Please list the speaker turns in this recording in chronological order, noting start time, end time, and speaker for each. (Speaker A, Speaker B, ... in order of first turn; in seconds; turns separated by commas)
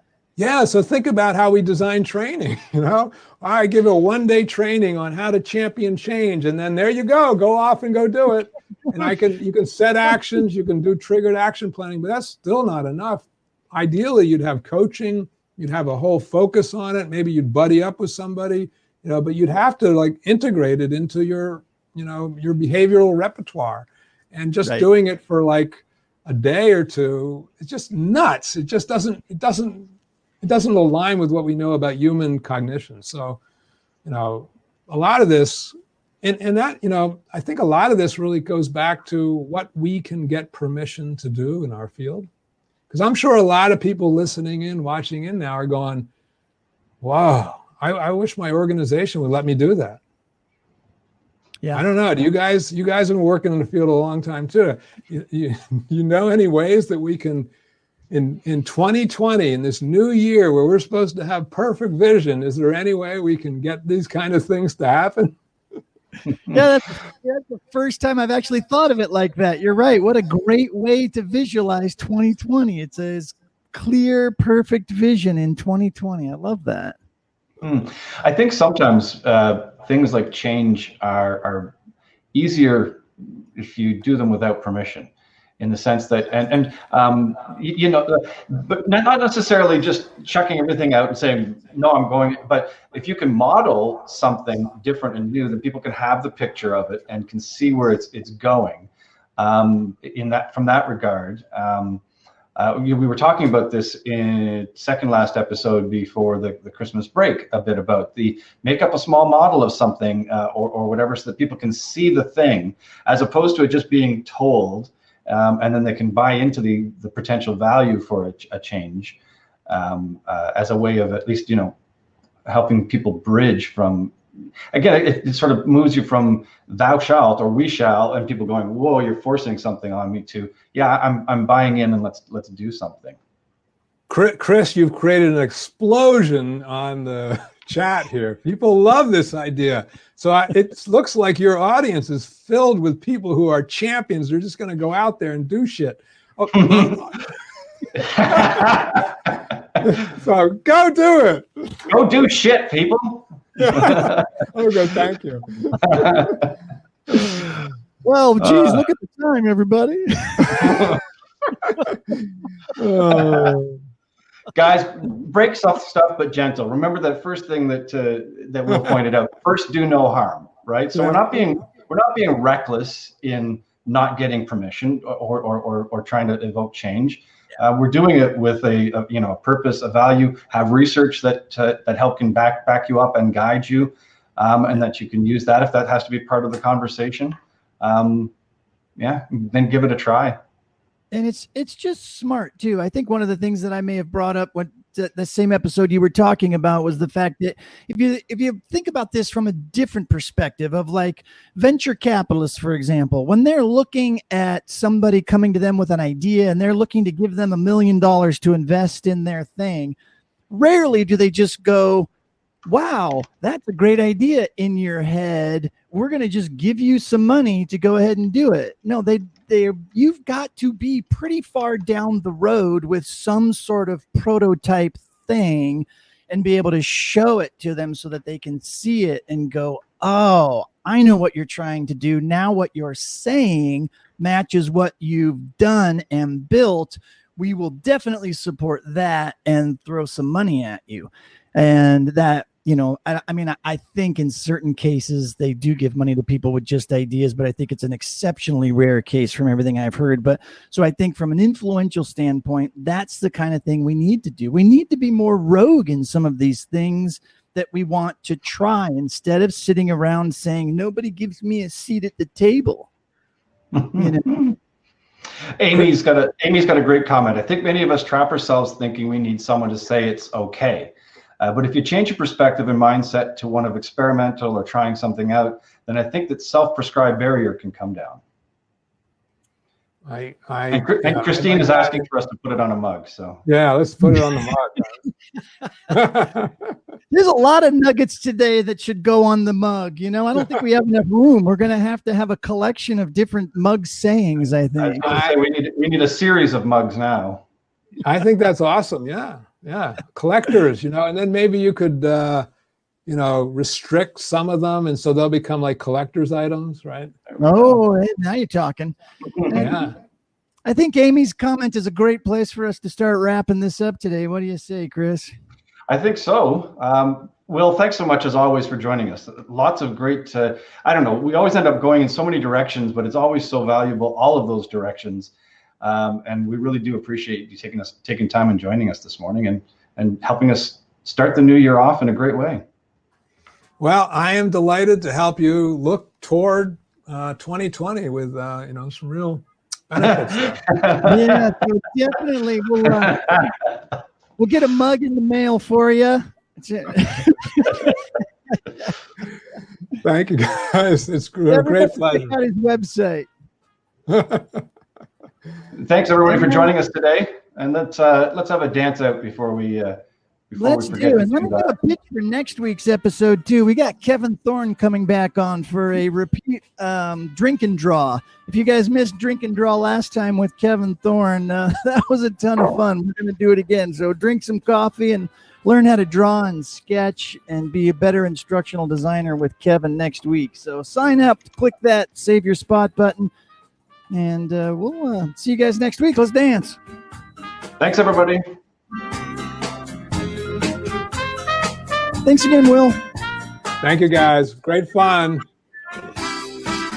Speaker A: 0.4-29.9, Speaker A: 30.4-33.4, Speaker A: 34.0-42.3, Speaker A: 42.9-46.1, Speaker A: 47.0-50.0, Speaker A: 51.7-57.5, Speaker A: 58.1-65.4, Speaker B: 66.5-77.0, Speaker C: 77.6-81.7, Speaker C: 82.3-102.0, Speaker C: 102.6-119.2, Speaker C: 119.7-121.8, Speaker C: 122.5-124.2, Speaker C: 124.7-133.2, Speaker A: 134.1-147.3, Speaker C: 146.6-146.9, Speaker A: 148.0-149.1, Speaker C: 148.1-149.0, Speaker A: 149.8-151.9, Speaker C: 151.9-154.3, Speaker A: 153.6-156.4, Speaker C: 155.8-156.5, Speaker B: 158.0-160.8, Speaker C: 158.5-158.8, Speaker C: 160.6-161.0, Speaker A: 162.8-163.8, Speaker C: 163.2-163.5, Speaker C: 164.5-188.3, Speaker A: 170.9-171.2, Speaker C: 189.0-190.4, Speaker B: 191.1-210.0, Speaker B: 210.5-212.1, Speaker B: 212.7-262.9, Speaker C: 263.7-264.5, Speaker B: 263.9-264.5, Speaker C: 265.5-278.2, Speaker A: 280.1-282.0, Speaker C: 280.7-283.4, Speaker A: 283.4-285.0, Speaker A: 285.9-286.8, Speaker B: 287.1-295.0, Speaker C: 294.8-297.4, Speaker A: 295.0-295.4, Speaker A: 298.0-302.5, Speaker A: 303.1-307.1, Speaker B: 307.4-309.9, Speaker A: 309.5-309.9, Speaker B: 310.6-315.3, Speaker C: 315.9-332.6, Speaker A: 333.8-340.8, Speaker C: 340.7-341.1, Speaker B: 341.0-343.5, Speaker B: 344.4-348.0, Speaker A: 350.0-352.4, Speaker B: 351.5-353.3, Speaker A: 354.1-354.6, Speaker C: 355.7-361.7, Speaker B: 356.3-356.7, Speaker B: 360.6-383.3, Speaker B: 384.1-386.8, Speaker C: 387.8-388.4, Speaker B: 392.2-393.0, Speaker A: 393.8-395.5